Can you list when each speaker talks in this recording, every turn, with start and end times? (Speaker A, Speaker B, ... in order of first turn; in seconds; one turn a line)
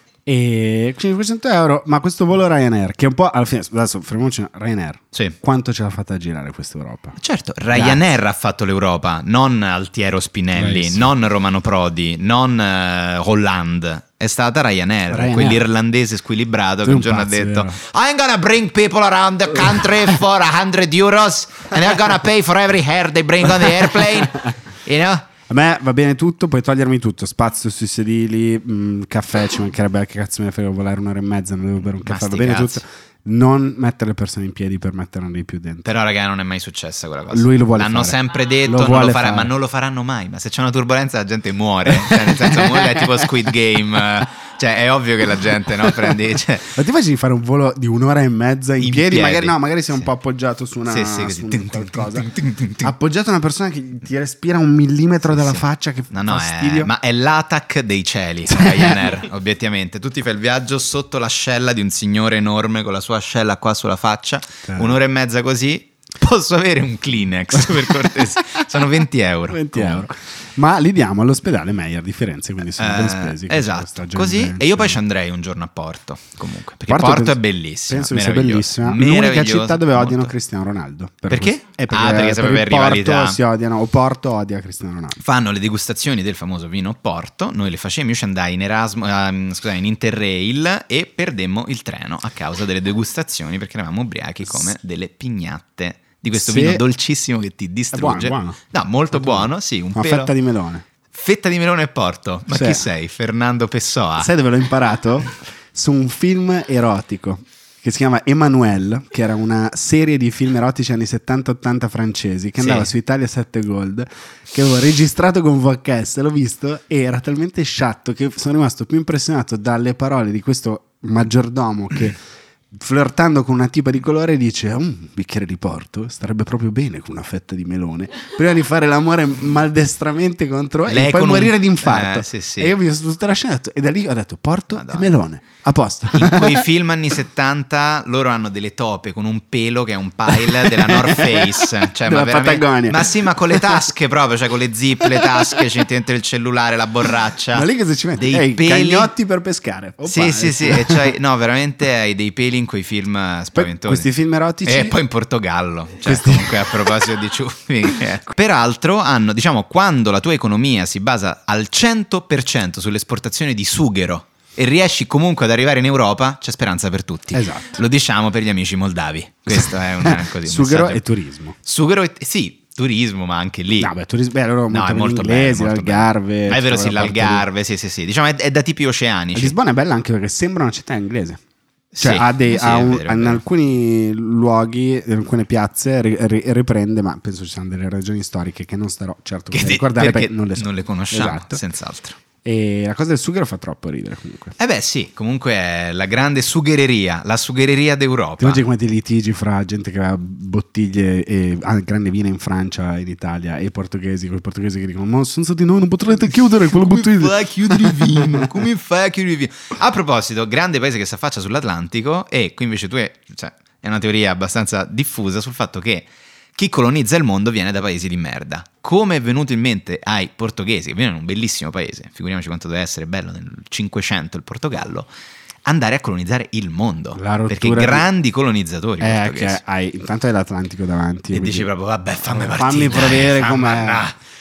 Speaker A: 0.3-7.2
Speaker B: 7.2-25.3
Speaker A: 7.7-8.0
Speaker A: 10.6-11.1
Speaker A: 15.1-15.6
Speaker A: 16.8-17.8
Speaker A: 25.5-35.9
Speaker B: 32.0-32.8
Speaker B: 35.9-46.8
Speaker A: 37.3-39.5
Speaker A: 41.9-43.3
Speaker A: 46.7-52.3
Speaker B: 48.8-49.5
Speaker B: 50.9-52.9
Speaker A: 52.8-56.9
Speaker B: 55.3-70.1
Speaker A: 58.5-59.1
Speaker A: 64.7-65.0
Speaker A: 67.6-68.1
Speaker A: 69.5-75.0
Speaker B: 72.8-80.3
Speaker A: 76.9-85.2
Speaker B: 81.3-83.4
Speaker B: 85.2-100.3
Speaker A: 94.5-94.7
Speaker A: 96.3-96.8
Speaker A: 97.9-98.6
Speaker A: 99.1-100.8
Speaker B: 101.1-104.3
Speaker A: 102.5-102.8
Speaker A: 104.2-122.2
Speaker B: 112.6-112.9
Speaker A: 122.7-136.7
Speaker B: 130.9-132.8
Speaker B: 134.7-135.1
Speaker B: 136.1-149.1
Speaker A: 140.3-143.9
Speaker A: 145.0-145.6
Speaker A: 147.5-151.1
Speaker B: 150.1-154.1
Speaker A: 153.6-155.0
Speaker B: 154.6-171.0
Speaker A: 156.0-157.0
Speaker A: 167.3-167.8
Speaker A: 169.5-171.6
Speaker B: 171.7-173.9
Speaker A: 173.8-177.5
Speaker B: 174.7-179.6
Speaker A: 179.3-181.4
Speaker B: 181.9-183.4
Speaker A: 182.0-191.6
Speaker B: 189.5-192.2
Speaker A: 192.4-194.6
Speaker B: 194.6-198.6
Speaker A: 198.4-208.5
Speaker B: 206.7-225.1
Speaker B: 225.7-229.6
Speaker A: 227.2-228.1
Speaker A: 229.0-231.7
Speaker B: 231.3-234.2
Speaker A: 232.3-234.1